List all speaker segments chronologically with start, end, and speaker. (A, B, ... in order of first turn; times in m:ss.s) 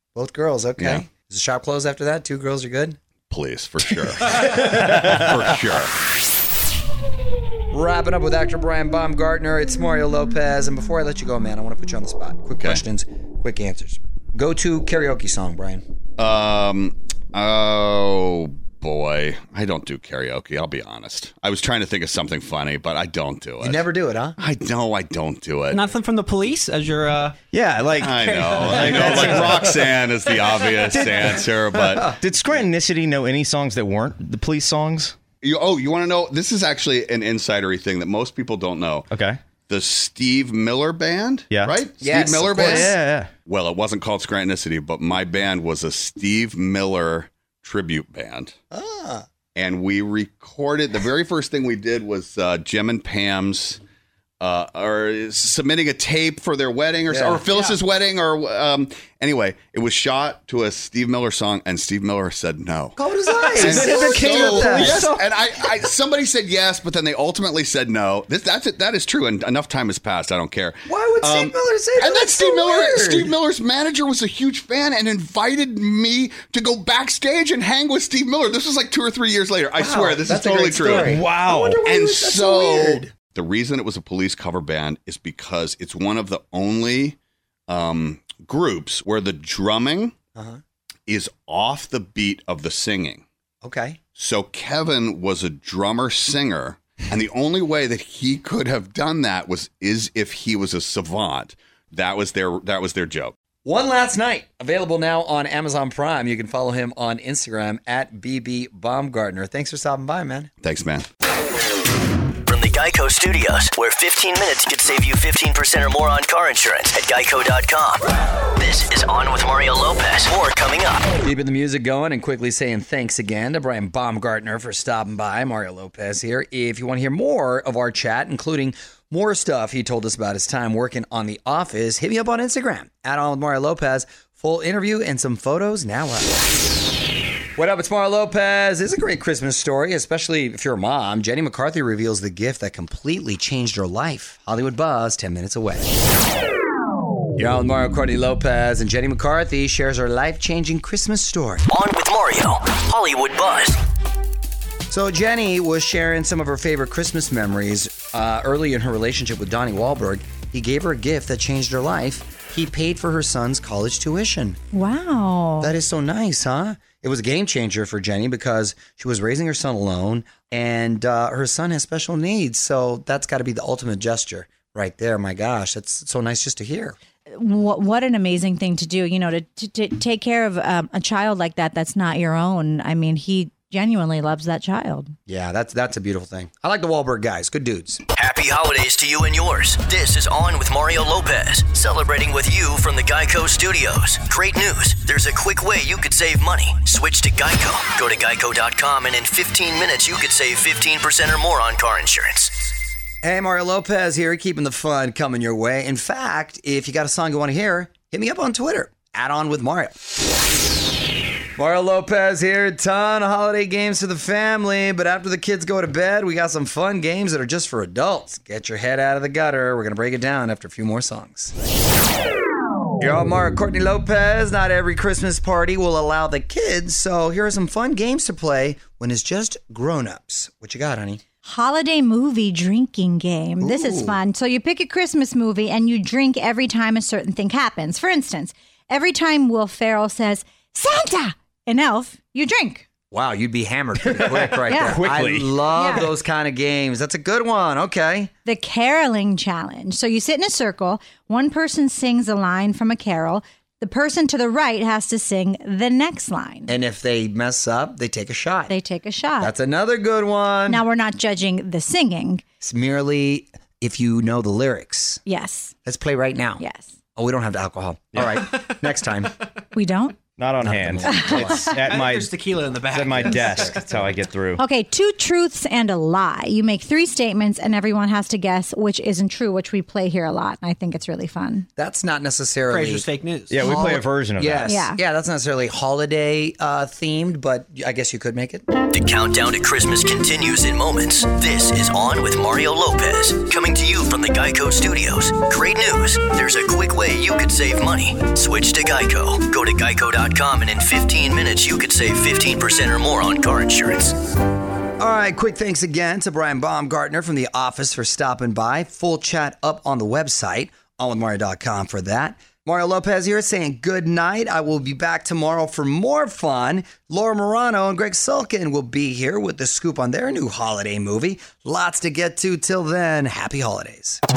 0:00.2-0:03.0 A
0:00.8-0:01.1 B
0:03.3-0:06.0 B
0:04.2-0:04.5 A
0:07.7-0:15.8 A
0:16.2-0:23.8 B
0:23.6-0:24.4 A
0:24.4-0:25.8 B
0:25.7-0:27.3 C
0:27.5-0:29.8 D
0:28.0-0:32.2 B
0:30.8-0:31.4 D
0:32.1-0:35.2 D
0:35.4-0:39.1 B
0:39.1-0:39.4 D
0:39.7-0:48.5 B
0:41.5-0:41.8 D
0:42.0-0:43.0 A
0:42.5-0:43.3 D
0:48.7-0:49.2 A
0:49.6-0:53.8 B
0:54.4-1:03.0 B
0:57.1-0:57.4 A
1:03.0-1:05.0 A
1:03.6-1:21.2 B
1:03.7-1:05.0 D
1:10.9-1:13.3 A
1:19.8-1:23.1 A
1:21.0-1:21.8 D
1:21.8-1:27.2 B
1:27.7-1:30.1 B
1:30.4-1:30.6 A
1:31.1-1:33.2 B
1:33.6-1:34.0 A
1:34.2-1:43.3 B
1:43.6-1:50.5 A
1:50.6-1:51.1 B
1:52.4-1:58.0 E
1:58.6-2:01.1 E
2:01.2-2:16.5 A
2:17.6-2:25.9 A
2:27.4-2:31.7 A
2:31.7-2:33.8 E
2:34.9-2:44.6 A
2:44.7-2:45.8 F
2:45.6-2:57.0 A
2:57.3-3:05.1 F
3:05.3-3:08.0 A
3:08.2-3:22.6 E
3:23.2-3:29.9 A
3:31.6-3:41.5 A
3:43.0-3:51.2 A
3:51.4-4:02.9 F
3:53.6-3:54.2 A
4:03.1-4:08.3 A
4:04.1-4:05.6 D
4:04.7-4:05.0 F
4:05.7-4:06.1 F
4:08.4-4:16.8 F
4:16.7-4:18.7 A
4:18.7-4:19.5 F
4:19.4-4:20.8 A
4:20.7-4:22.4 F
4:22.6-4:25.2 A
4:25.3-4:25.8 F
4:25.8-4:26.6 A
4:26.6-4:26.9 F
4:27.2-4:29.3 A
4:29.7-4:30.2 F
4:30.4-4:32.3 D
4:30.6-4:31.9 A
4:31.0-4:31.5 F
4:31.9-4:33.0 C
4:32.9-4:34.6 D
4:32.9-4:34.0 A
4:34.6-4:41.7 F
4:41.8-4:43.1 A
4:42.7-4:43.6 C
4:43.5-4:44.7 D
4:43.6-4:48.7 A
4:44.6-4:45.0 F
4:48.9-5:04.1 E
5:05.0-5:24.2 A